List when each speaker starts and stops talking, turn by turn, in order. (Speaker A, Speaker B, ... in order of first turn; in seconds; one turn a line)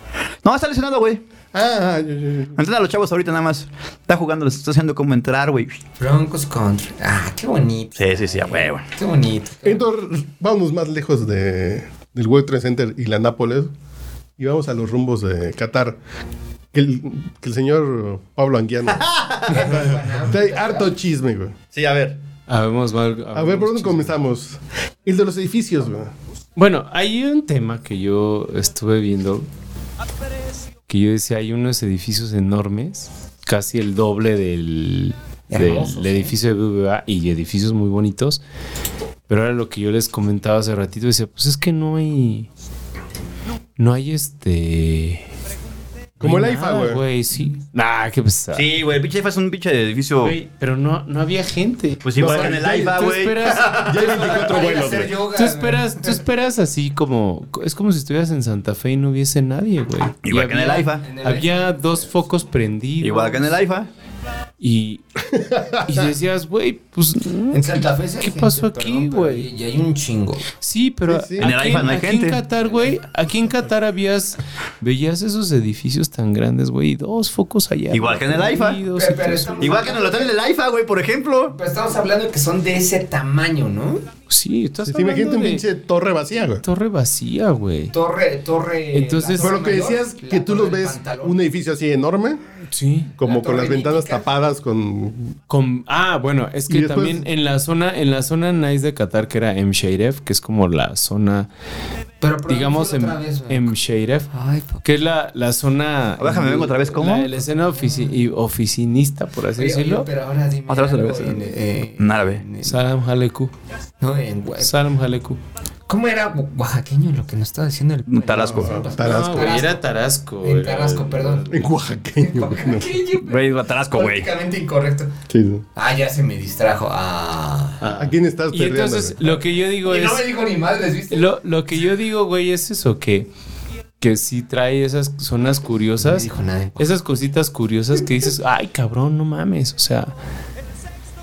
Speaker A: 0.4-1.2
Speaker B: 1.5-2.6
Speaker A: 2.6-5.8
Speaker C: 6.0-9.8
Speaker A: 8.0-8.8
Speaker B: 9.6-13.7
Speaker B: 14.4-16.0
Speaker B: 16.7-19.0
Speaker A: 18.9-19.6
Speaker C: 19.5-20.9
Speaker B: 19.6-22.1
Speaker D: 22.5-24.2
Speaker B: 23.3-26.1
Speaker D: 26.6-29.5
Speaker D: 30.9-38.4
Speaker C: 35.5-36.3
Speaker D: 39.3-42.5
Speaker D: 43.8-45.2
Speaker B: 46.2-47.0
Speaker D: 46.2-48.7
Speaker A: 48.5-50.4
Speaker D: 50.2-54.3
Speaker A: 52.0-53.6
Speaker B: 52.2-55.1
Speaker C: 53.9-56.1
Speaker D: 55.3-63.6
Speaker A: 60.2-61.0
Speaker C: 61.0-62.0
Speaker A: 63.0-63.9
Speaker D: 64.6-65.0
Speaker B: 65.3-66.1
Speaker D: 65.8-69.5
Speaker C: 67.5-70.5
Speaker D: 70.6-79.8
Speaker B: 71.1-71.5
Speaker A: 71.4-72.4
Speaker C: 72.7-72.9
Speaker A: 77.9-78.8
Speaker C: 78.9-80.3
Speaker A: 79.6-81.5
Speaker C: 81.5-84.1
Speaker D: 84.3-85.6
Speaker B: 84.8-86.6
Speaker D: 86.6-87.9
Speaker C: 87.9-91.3
Speaker D: 88.9-89.5
Speaker B: 89.4-92.4
Speaker D: 92.7-93.1
Speaker B: 93.2-95.3
Speaker C: 93.2-94.3
Speaker D: 95.5-101.5
Speaker B: 96.7-97.2
Speaker C: 102.2-103.7
Speaker D: 102.5-104.3
Speaker C: 104.3-104.8
Speaker D: 104.8-110.1
Speaker A: 106.2-107.3
Speaker C: 107.7-108.2
Speaker C: 109.6-112.8
Speaker A: 110.7-112.4
Speaker D: 112.6-113.5
Speaker C: 114.0-114.7
Speaker D: 114.6-115.4
Speaker C: 115.9-119.8
Speaker A: 118.1-118.7
Speaker B: 118.4-119.5
Speaker D: 119.0-121.6
Speaker C: 120.4-121.5
Speaker B: 121.5-122.9
Speaker C: 122.2-125.1
Speaker A: 123.2-124.3
Speaker B: 125.3-125.7
Speaker C: 125.8-127.8
Speaker D: 127.8-130.3
Speaker B: 128.0-129.4
Speaker C: 129.8-131.2
Speaker D: 131.1-133.3
Speaker D: 134.0-140.1
Speaker C: 136.0-137.0